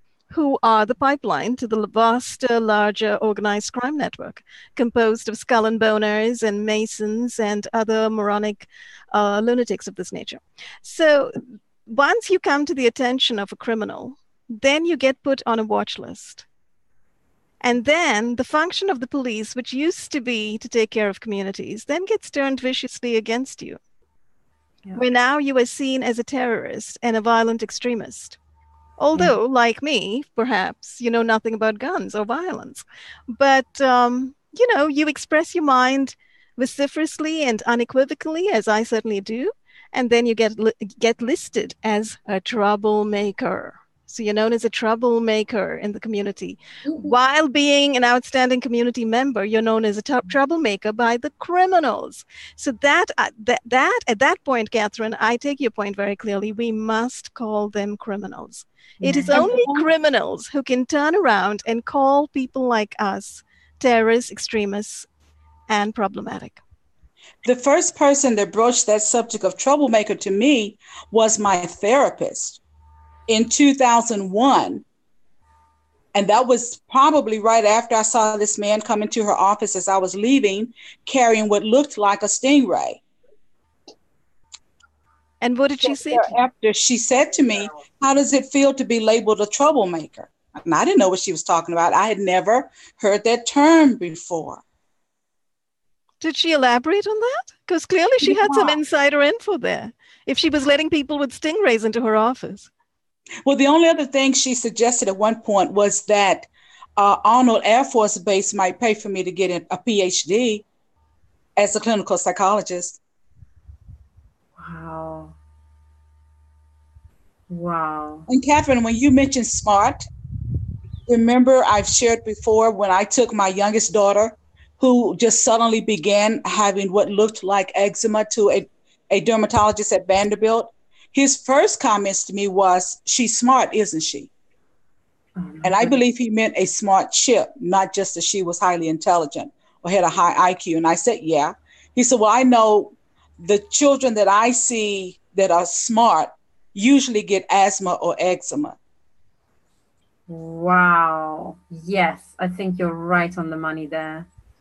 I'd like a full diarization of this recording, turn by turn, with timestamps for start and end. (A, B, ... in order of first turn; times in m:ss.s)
0:00.3-0:16.4 A
0:17.6-0:23.8 A
0:24.9-0:28.4 A
0:29.0-1:05.1 A
0:46.8-0:47.1 B
0:59.0-0:59.8 B
1:05.7-1:06.6 A
1:07.4-1:12.6 C
1:13.3-1:14.8 C
1:16.1-1:23.0 C
1:25.4-1:26.3 A
1:25.9-1:34.6 C
1:36.2-1:42.7 A
1:38.2-1:38.8 C
1:43.4-1:50.6 C
1:51.6-1:53.0 C
1:54.6-1:55.3 B
1:57.5-1:58.3 B
1:58.3-2:00.1 C
2:01.1-2:14.3 C
2:15.4-2:16.0 B
2:15.6-2:28.8 C
2:30.3-2:34.3 B